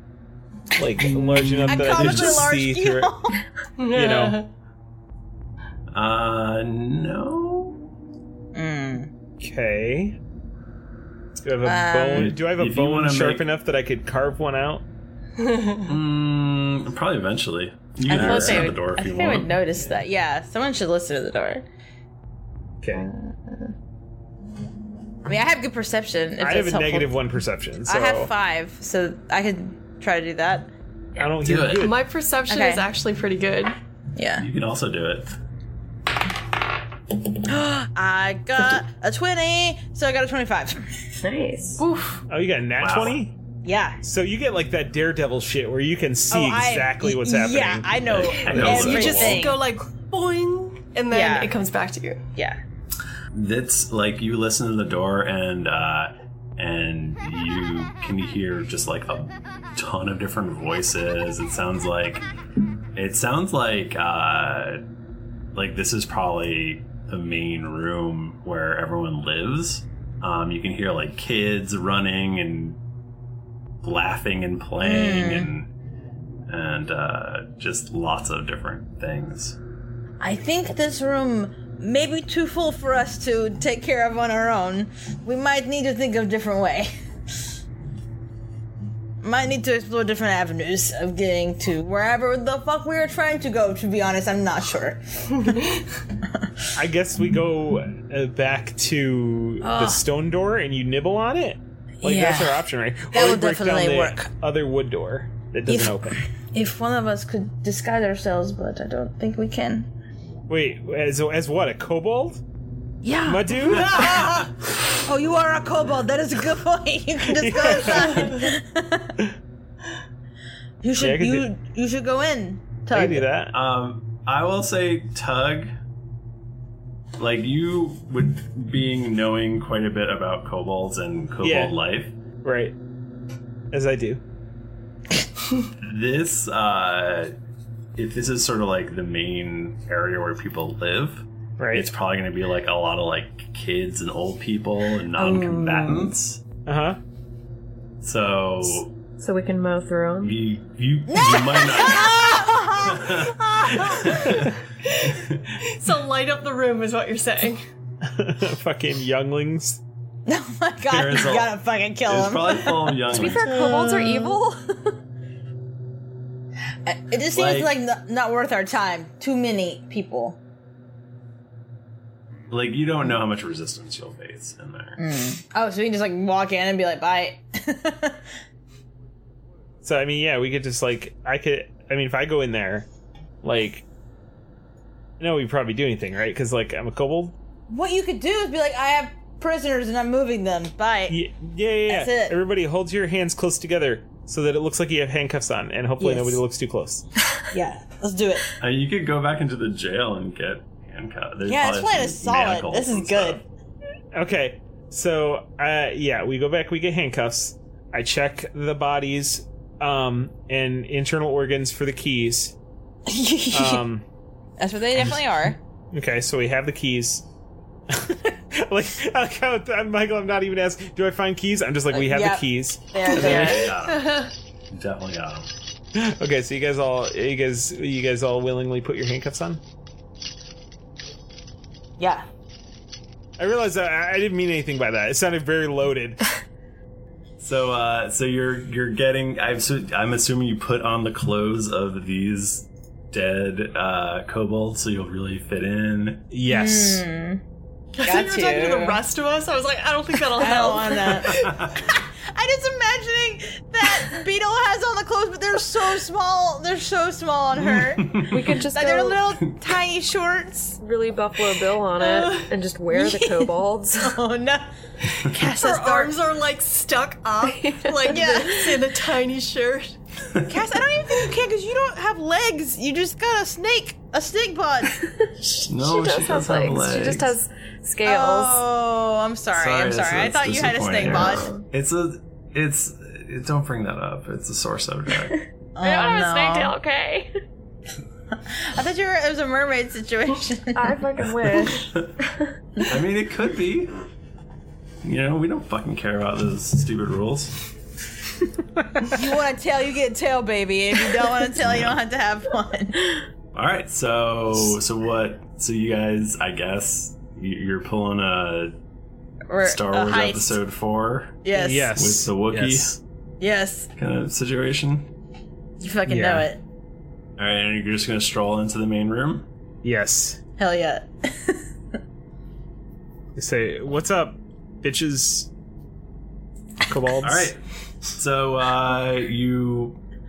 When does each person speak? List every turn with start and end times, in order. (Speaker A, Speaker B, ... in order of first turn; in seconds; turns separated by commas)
Speaker A: 0.8-3.1, Speaker B: 1.0-2.4, Speaker C: 1.7-3.4, Speaker D: 3.8-4.5, Speaker A: 3.9-4.4, Speaker B: 5.9-7.8, Speaker C: 8.5-9.1, Speaker A: 9.4-10.2, Speaker A: 11.4-14.8, Speaker C: 11.6-12.3, Speaker B: 12.1-13.5, Speaker D: 15.4-15.8, Speaker B: 15.8-19.6, Speaker C: 18.1-21.6, Speaker A: 18.1-18.6, Speaker A: 22.8-23.1, Speaker C: 25.2-27.2, Speaker A: 26.4-28.3, Speaker C: 27.9-30.7, Speaker A: 31.2-32.0, Speaker B: 31.4-31.9, Speaker D: 31.8-33.7, Speaker C: 32.5-32.8, Speaker C: 34.1-34.4, Speaker B: 34.4-35.3, Speaker C: 37.5-40.8, Speaker E: 41.2-41.8, Speaker D: 41.8-42.2, Speaker A: 42.3-43.3, Speaker B: 42.8-43.2, Speaker C: 43.6-44.0, Speaker A: 44.0-49.4, Speaker C: 46.3-49.6, Speaker B: 48.0-49.4, Speaker D: 48.9-52.2, Speaker C: 51.1-51.5, Speaker B: 53.3-62.2, Speaker B: 62.9-64.8, Speaker B: 65.5-72.8, Speaker B: 73.8-75.7, Speaker C: 74.8-75.5, Speaker B: 76.5-79.6, Speaker C: 80.2-86.9, Speaker C: 89.2-95.5, Speaker A: 96.8-106.2, Speaker C: 99.6-100.0, Speaker C: 102.0-104.2, Speaker C: 105.7-109.9, Speaker A: 110.5-112.4, Speaker C: 113.0-119.1, Speaker A: 113.2-114.3, Speaker A: 117.3-118.4, Speaker C: 120.8-123.2, Speaker A: 121.0-121.5, Speaker A: 122.9-123.5, Speaker B: 123.5-125.7, Speaker B: 127.2-132.1, Speaker A: 131.4-131.7, Speaker A: 132.4-132.7, Speaker A: 133.7-134.2, Speaker B: 135.8-137.3, Speaker B: 137.9-146.4, Speaker A: 141.6-141.9, Speaker C: 145.2-146.1, Speaker A: 146.7-147.0, Speaker B: 148.0-148.9, Speaker E: 149.2-150.4, Speaker B: 150.2-154.4, Speaker C: 151.1-154.2, Speaker A: 154.2-154.6, Speaker D: 155.7-157.6, Speaker A: 158.0-159.8, Speaker C: 160.3-163.8, Speaker B: 160.8-163.5, Speaker E: 163.1-164.5, Speaker D: 163.4-164.1, Speaker C: 166.8-170.4, Speaker B: 167.3-167.7, Speaker B: 172.5-175.0, Speaker C: 175.0-178.2, Speaker A: 179.8-182.9, Speaker A: 183.4-183.8, Speaker A: 185.2-187.3, Speaker C: 187.7-191.2, Speaker A: 191.1-197.0, Speaker C: 191.9-192.3, Speaker C: 196.0-196.4, Speaker C: 197.5-198.5, Speaker B: 198.6-203.4, Speaker C: 201.5-203.4, Speaker A: 204.1-212.5, Speaker C: 213.1-213.8, Speaker A: 213.5-214.0, Speaker C: 214.6-215.6, Speaker A: 215.9-217.2, Speaker A: 217.9-223.7, Speaker C: 221.9-223.7, Speaker B: 223.1-225.5, Speaker D: 223.8-224.3, Speaker A: 225.9-229.6, Speaker C: 232.0-232.2, Speaker A: 233.4-236.2, Speaker B: 237.4-246.2, Speaker A: 246.3-247.0, Speaker C: 246.5-247.4, Speaker D: 248.0-251.5, Speaker C: 248.0-249.0, Speaker C: 250.4-251.4, Speaker B: 251.3-251.8, Speaker C: 252.3-260.8, Speaker B: 257.6-258.6, Speaker E: 258.3-259.2, Speaker E: 260.8-264.1, Speaker D: 262.0-262.5, Speaker C: 262.9-264.7, Speaker D: 265.3-270.0, Speaker C: 265.3-266.1, Speaker E: 267.5-268.5, Speaker C: 268.1-268.7, Speaker C: 270.4-275.0, Speaker E: 275.2-278.6, Speaker B: 275.7-277.4, Speaker C: 278.0-281.5, Speaker B: 279.5-285.4, Speaker E: 281.2-281.6, Speaker C: 285.8-286.8, Speaker E: 285.8-287.3, Speaker C: 288.4-291.0, Speaker E: 290.7-292.5, Speaker B: 291.5-292.1, Speaker B: 292.9-293.9, Speaker B: 295.0-297.6, Speaker C: 299.1-303.2, Speaker B: 301.6-302.0, Speaker B: 303.5-308.8, Speaker C: 309.5-310.6, Speaker B: 309.6-311.4, Speaker C: 311.4-311.9, Speaker A: 311.5-313.0, Speaker B: 311.9-313.0, Speaker C: 313.4-313.9, Speaker B: 314.0-315.1, Speaker C: 315.8-316.6, Speaker A: 316.1-316.5, Speaker B: 317.4-319.5, Speaker A: 319.8-320.4, Speaker C: 320.6-321.6, Speaker A: 323.4-325.5, Speaker A: 326.9-327.5, Speaker B: 327.2-327.6, Speaker B: 328.1-330.0